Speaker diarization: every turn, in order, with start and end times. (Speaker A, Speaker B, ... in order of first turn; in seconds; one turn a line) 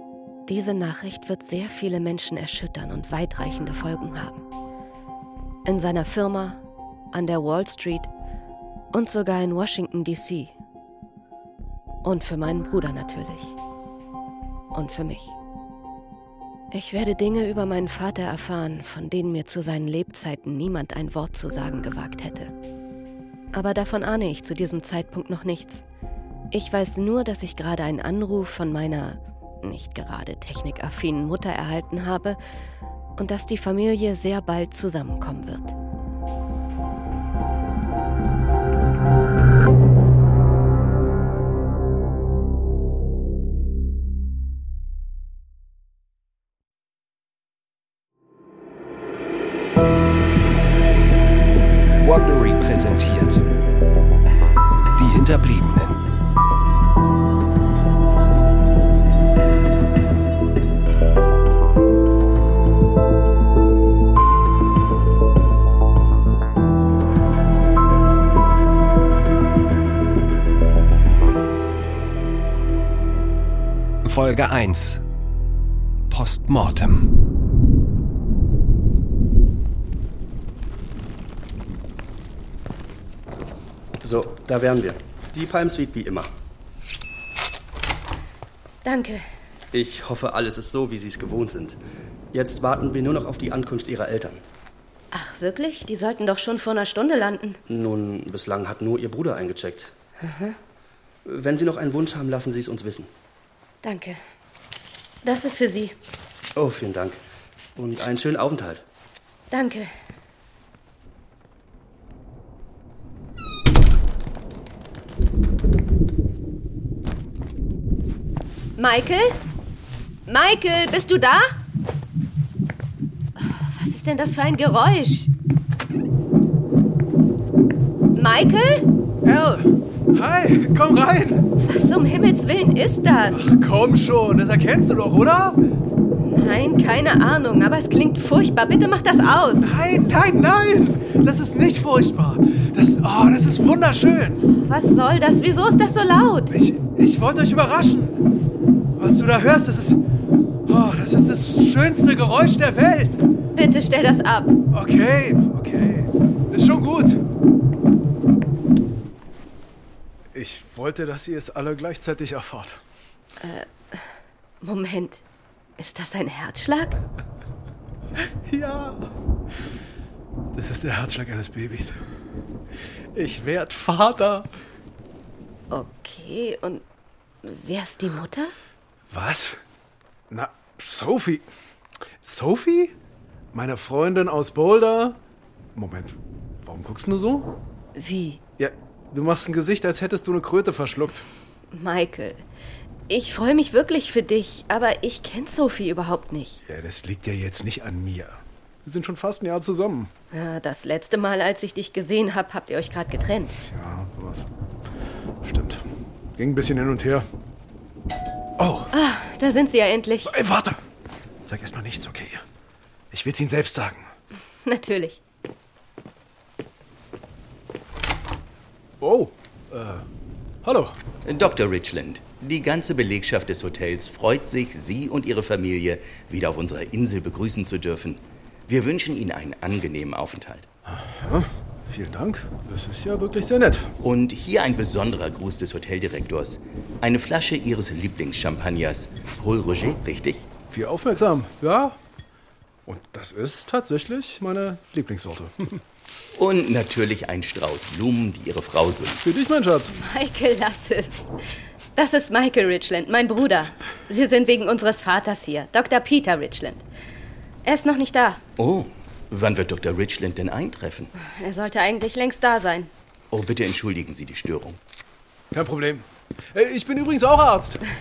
Speaker A: 0.5-4.4
Speaker A: 5.7-6.6
Speaker A: 7.1-8.1
Speaker A: 8.9-10.6
Speaker A: 12.0-13.6
Speaker A: 14.7-15.3
Speaker A: 16.7-22.5
Speaker A: 23.5-25.8
Speaker A: 26.5-32.4
Speaker A: 33.2-35.8
Speaker B: 52.0-53.4
Speaker B: 54.9-56.0
Speaker B: 74.0-75.0
Speaker B: 76.1-77.1
Speaker C: 84.0-86.3
Speaker A: 88.8-89.2
Speaker C: 89.7-91.8
Speaker C: 92.3-94.4
Speaker A: 95.1-97.6
Speaker C: 97.7-99.9
Speaker A: 100.2-100.5
Speaker C: 101.2-103.1
Speaker A: 103.8-104.2
Speaker A: 105.2-105.9
Speaker C: 106.5-107.2
Speaker C: 107.8-108.8
Speaker A: 109.5-109.9
Speaker A: 118.8-119.4
Speaker A: 120.3-121.6
Speaker A: 123.4-125.3
Speaker A: 128.2-128.9
Speaker D: 129.2-131.5
Speaker A: 131.7-133.5
Speaker D: 133.3-135.6
Speaker A: 136.2-139.7
Speaker D: 139.6-144.4
Speaker A: 144.5-146.5
Speaker D: 146.5-148.2
Speaker D: 149.0-150.0
Speaker D: 150.7-153.2
Speaker A: 153.5-154.6
Speaker D: 154.7-157.2
Speaker D: 160.3-162.8
Speaker A: 163.4-164.0
Speaker A: 164.6-165.2
Speaker A: 165.8-167.0
Speaker D: 168.5-169.0
Speaker D: 170.5-172.0
Speaker D: 173.1-174.5
Speaker A: 175.7-176.8
Speaker A: 177.4-178.5
Speaker D: 179.1-179.6
Speaker D: 180.3-181.5
Speaker D: 182.2-182.9
Speaker D: 183.5-185.2
Speaker D: 185.7-187.5
Speaker A: 187.9-188.4
Speaker D: 188.6-191.2
Speaker A: 191.7-192.4
Speaker A: 193.1-196.6
Speaker D: 196.7-200.1
Speaker A: 200.3-203.6
Speaker D: 203.7-204.5
Speaker D: 205.4-205.8
Speaker D: 206.4-207.2
Speaker D: 208.6-208.9
Speaker A: 208.9-210.3
Speaker D: 210.2-210.8
Speaker D: 211.4-212.4
Speaker D: 213.1-214.1
Speaker A: 214.7-215.2
Speaker D: 219.0-220.0
Speaker D: 220.6-221.0
Speaker E: 221.2-230.7
Speaker D: 230.8-233.9
Speaker E: 234.0-240.5
Speaker D: 240.7-242.0
Speaker D: 242.8-245.8
Speaker E: 246.3-249.2
Speaker D: 249.2-249.9
Speaker A: 249.9-251.3
Speaker A: 251.9-256.9
Speaker A: 257.6-258.4
Speaker E: 258.6-261.1
Speaker A: 261.2-262.9
Speaker E: 263.3-264.8
Speaker D: 265.5-267.8